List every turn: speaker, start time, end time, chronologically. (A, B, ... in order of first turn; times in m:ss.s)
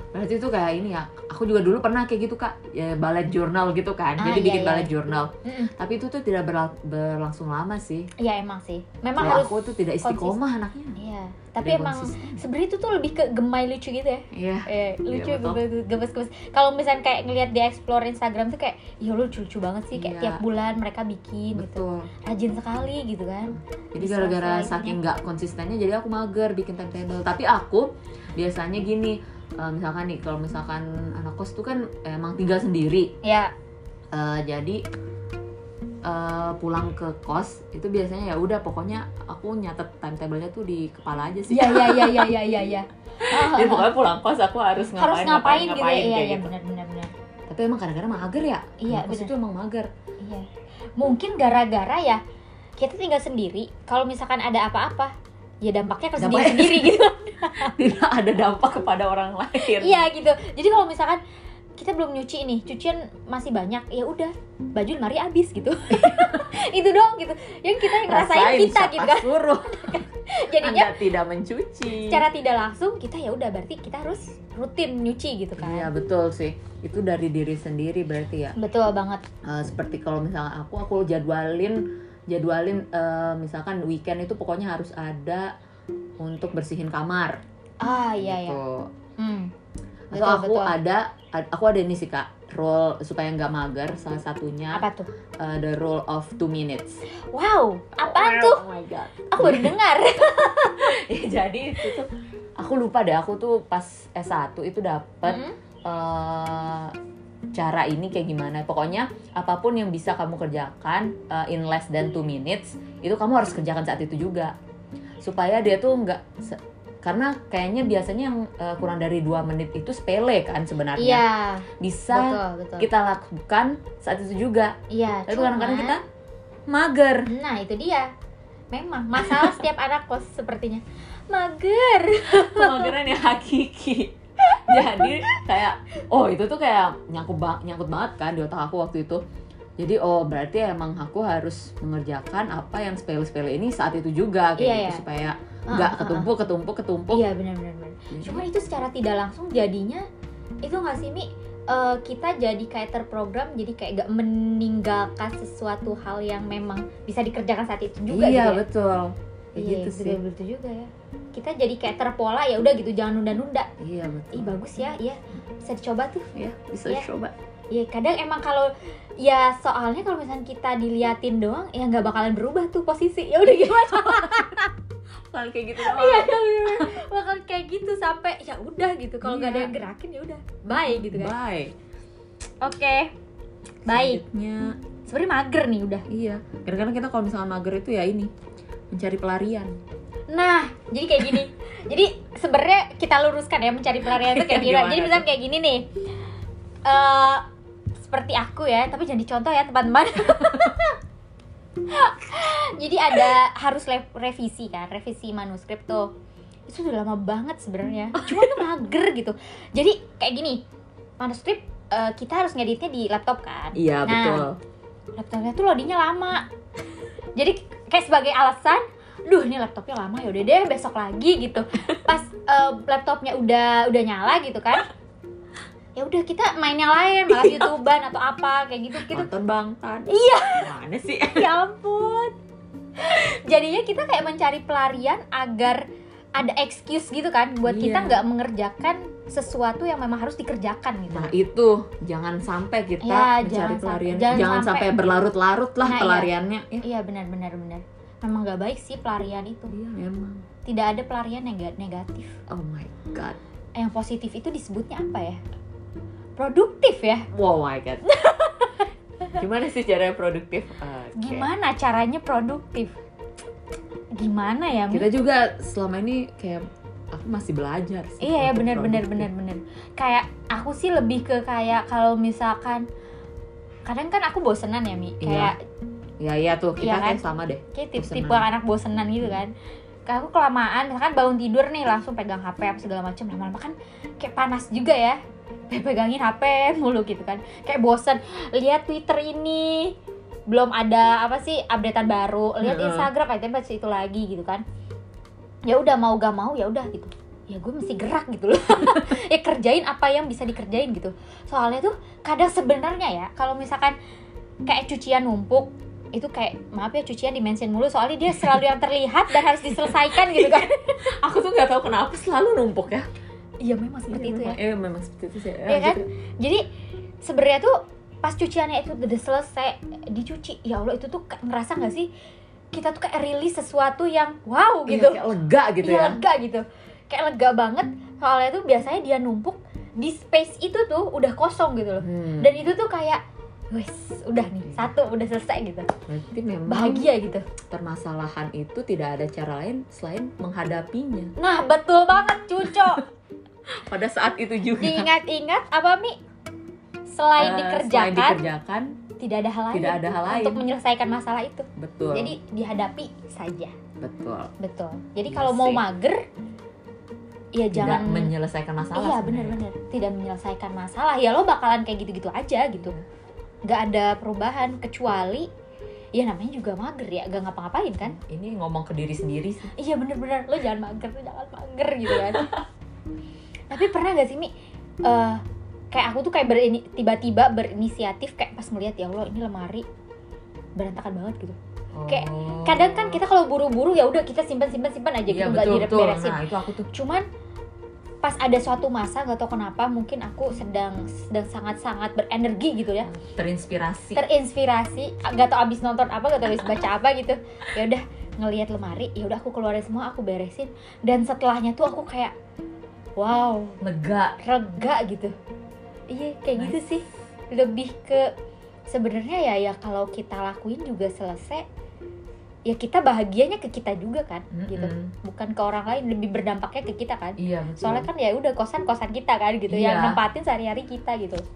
0:00.1-0:08.1 A
0:04.2-0:04.9 B
0:05.4-0:05.7 B
0:08.2-0:10.4 B
0:09.2-0:11.0 A
0:11.0-0:25.0 B
0:11.6-0:12.4 A
0:14.3-0:15.6 A
0:19.9-0:20.4 A
0:21.5-0:22.1 A
0:23.9-0:33.1 A
0:33.2-0:33.5 B
0:34.1-0:34.8 A
0:36.0-0:42.3 A
0:41.5-0:43.9 B
0:43.3-0:46.5 A
0:44.9-0:47.1 B
0:47.5-0:49.9 A
0:48.8-0:49.3 B
0:50.2-0:52.2 B
0:52.8-0:57.8 B
0:56.2-1:00.1 A
0:59.6-1:01.2 B
1:01.8-1:10.9 B
1:05.9-1:06.5 A
1:07.8-1:12.2 A
1:11.9-1:15.9 B
1:15.6-1:18.6 A
1:18.5-1:19.2 B
1:19.4-1:25.5 A
1:26.2-1:27.4 A
1:27.8-1:28.6 B
1:28.2-1:28.9 A
1:29.2-1:29.5 B
1:30.1-1:34.9 A
1:30.1-1:30.7 B
1:34.7-1:35.1 B
1:35.4-1:37.0 A
1:37.1-1:38.6 B
1:38.0-1:39.8 A
1:39.3-1:40.9 B
1:40.8-1:46.9 A
1:45.2-1:45.6 B
1:47.5-1:54.5 A
1:55.2-2:04.8 A
2:01.0-2:02.9 B
2:04.9-2:06.0 B
2:05.3-2:06.0 A
2:06.7-2:07.3 A
2:07.3-2:08.1 B
2:08.7-2:12.9 B
2:12.3-2:19.2 A
2:14.4-2:15.4 B
2:19.8-2:27.3 A
2:24.6-2:25.0 B
2:25.7-2:26.3 B
2:27.1-2:30.0 B
2:28.1-2:28.5 A
2:30.6-2:38.6 B
2:38.1-2:40.2 A
2:39.6-2:43.7 B
2:43.8-2:44.6 A
2:44.3-2:46.3 B
2:46.4-2:47.3 A
2:47.7-2:54.7 B
2:53.5-2:54.5 A
2:55.3-2:56.9 A
2:55.8-3:01.3 B
2:59.2-2:59.8 A
3:00.8-3:01.7 A
3:02.6-3:03.1 B
3:03.9-3:04.2 B
3:03.9-3:04.8 A
3:05.1-3:06.0 B
3:06.1-3:08.3 A
3:08.9-3:09.8 A
3:10.3-3:15.9 B
3:14.0-3:15.2 A
3:16.8-3:17.4 B
3:18.0-3:21.0 B
3:20.4-3:20.7 A
3:21.9-3:26.1 B
3:26.7-3:30.6 B
3:28.1-3:28.6 A
3:31.2-3:34.5 B
3:33.8-3:34.6 A
3:35.2-3:36.5 B
3:37.4-3:44.9 B
3:46.0-3:49.3 B
3:47.3-3:47.7 A
3:49.0-3:51.5 A
3:50.1-3:50.7 B
3:51.3-3:52.3 B
3:53.0-4:01.3 B
3:57.6-3:58.2 A
4:01.1-4:06.8 A
4:03.0-4:05.1 B
4:05.8-4:09.7 B
4:09.7-4:10.5 A
4:10.6-4:12.4 B
4:12.5-4:13.4 A
4:13.8-4:15.4 B
4:16.4-4:17.3 B
4:17.3-4:18.0 A
4:18.1-4:18.9 B
4:19.4-4:21.5 A
4:21.2-4:23.0 B
4:24.1-4:25.1 B
4:24.9-4:29.3 A
4:28.2-4:32.9 B
4:33.9-4:35.6 B
4:35.2-4:35.5 A
4:36.2-4:38.4 A
4:36.8-4:39.5 B
4:40.0-4:50.0 B
4:50.5-4:54.6 B
4:52.6-4:53.1 A
4:55.6-5:04.0 B
5:04.6-5:11.0 B
5:09.6-5:13.1 A
5:13.6-5:14.6 B
5:14.1-5:16.0 A
5:15.7-5:16.6 B
5:17.2-5:22.1 B
5:22.7-5:25.2 B
5:24.9-5:26.2 A
5:25.8-5:35.9 B
5:32.0-5:32.6 A
5:34.6-5:34.9 A
5:36.1-5:37.1 A
5:36.7-5:37.4 B
5:37.7-5:41.3 A
5:41.4-5:43.0 B
5:42.7-5:43.0 A
5:43.7-5:45.1 A
5:44.8-5:46.2 B
5:47.1-5:48.4 B
5:47.4-5:49.0 A
5:49.2-5:53.7 B
5:49.7-5:50.6 A
5:51.8-5:52.4 A
5:54.0-5:54.5 A
5:54.6-5:56.2 B
5:55.3-5:55.8 A
5:57.5-5:58.3 B
5:57.7-5:59.6 A
5:59.0-6:03.0 B
6:03.6-6:05.5 B
6:06.1-6:08.2 B
6:08.0-6:09.7 A
6:09.7-6:12.5 B
6:12.1-6:12.6 A
6:13.7-6:14.5 B
6:15.0-6:19.9 B
6:20.8-6:21.6 B
6:21.9-6:23.2 A
6:22.1-6:27.2 B
6:25.3-6:26.9 A
6:28.2-6:33.1 B
6:33.0-6:34.2 A
6:34.2-6:42.4 B
6:43.2-6:43.8 B
6:43.8-6:44.4 A
6:44.4-6:45.4 B
6:46.1-6:48.3 B
6:48.9-6:51.6 B
6:52.7-7:01.4 B
6:54.5-6:55.1 A
6:57.4-6:58.1 A
6:59.7-7:00.2 A